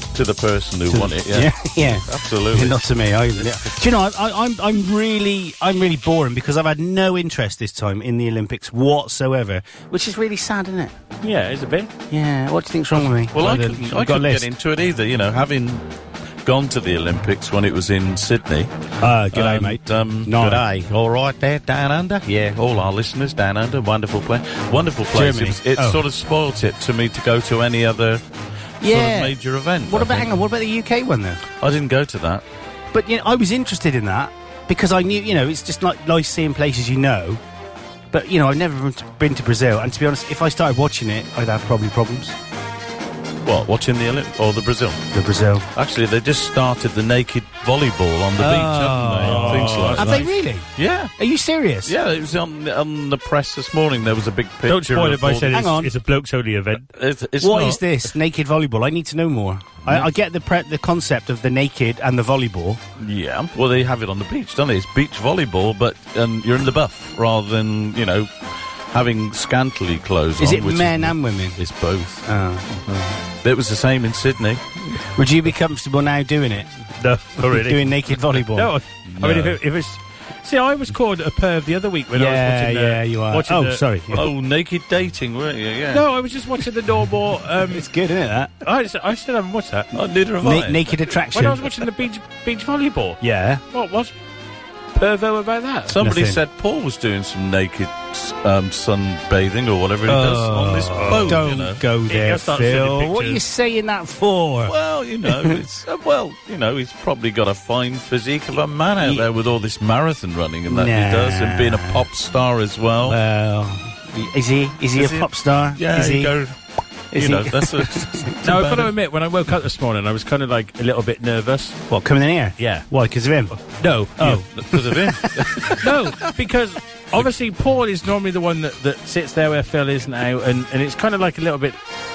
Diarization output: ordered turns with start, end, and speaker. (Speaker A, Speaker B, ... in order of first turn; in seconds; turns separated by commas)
Speaker A: 0.1-2.8, Speaker B: 0.9-10.9, Speaker A: 3.3-3.8, Speaker C: 11.2-11.9, Speaker B: 12.1-14.5, Speaker A: 13.3-15.8, Speaker A: 16.4-18.7, Speaker B: 19.0-20.9, Speaker A: 19.3-28.2, Speaker B: 25.1-26.0, Speaker B: 28.8-29.3, Speaker A: 28.8-30.3, Speaker B: 29.9-31.4, Speaker A: 31.6-32.4, Speaker B: 32.9-37.4, Speaker B: 38.1-42.4, Speaker A: 43.4-45.0, Speaker B: 45.1-45.7, Speaker A: 45.7-51.1, Speaker B: 48.4-51.9, Speaker C: 49.2-50.3, Speaker A: 51.8-55.7, Speaker C: 54.7-56.9, Speaker B: 55.5-55.9, Speaker A: 56.9-57.8, Speaker B: 57.4-62.8, Speaker A: 63.0-68.3, Speaker A: 68.9-72.2, Speaker B: 70.4-71.6, Speaker B: 72.2-72.7, Speaker A: 73.4-74.7, Speaker B: 75.2-76.7, Speaker C: 77.0-77.8, Speaker B: 77.4-78.7, Speaker C: 78.6-83.8, Speaker A: 79.1-79.6, Speaker B: 82.1-84.3, Speaker A: 84.1-86.0, Speaker C: 85.9-87.9, Speaker B: 87.6-88.5, Speaker C: 88.6-89.9, Speaker A: 89.9-91.2, Speaker B: 90.4-91.7, Speaker C: 91.3-93.2, Speaker B: 93.2-93.6, Speaker C: 93.7-94.1, Speaker C: 94.9-95.9, Speaker A: 95.9-101.8, Speaker B: 96.0-96.4, Speaker B: 100.1-105.6, Speaker C: 100.9-101.5, Speaker C: 102.1-103.4, Speaker A: 104.6-113.2, Speaker B: 109.0-109.3, Speaker B: 110.7-112.0, Speaker B: 113.0-116.4, Speaker A: 114.9-116.6, Speaker B: 117.1-118.3, Speaker A: 117.2-118.9, Speaker C: 118.4-121.8, Speaker B: 121.9-123.5, Speaker C: 122.6-122.8, Speaker C: 123.7-124.4, Speaker B: 124.2-125.7, Speaker A: 124.2-125.8, Speaker C: 125.8-131.8